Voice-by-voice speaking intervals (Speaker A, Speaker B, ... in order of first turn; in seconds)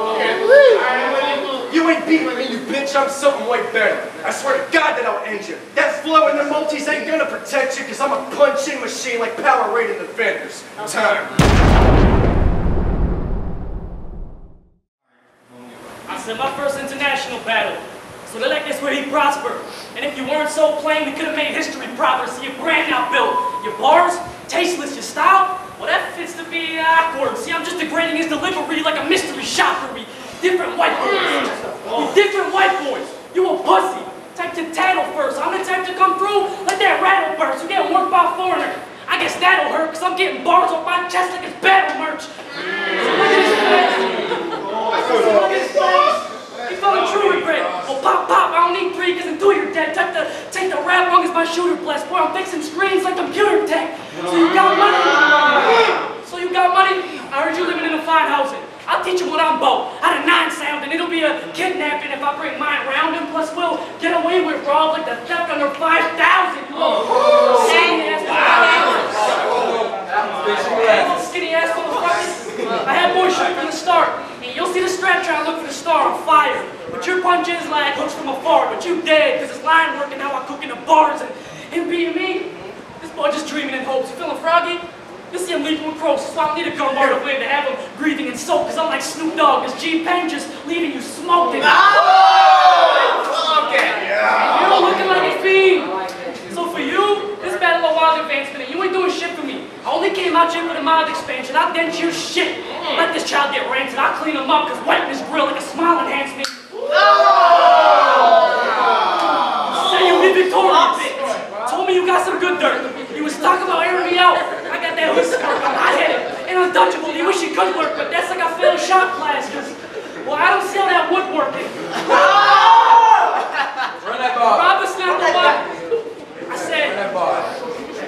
Speaker A: 1.5-11.4
Speaker B: 16.1-42.3, 42.8-69.5, 70.7-92.2, 92.8-93.5, 94.2-96.0, 96.5-106.6, 109.5-122.9, 124.4-125.7, 126.5-127.0
Speaker C: 69.5-70.9, 92.4-92.7, 93.3-94.1, 107.0-107.8, 124.0-124.6, 127.0-127.5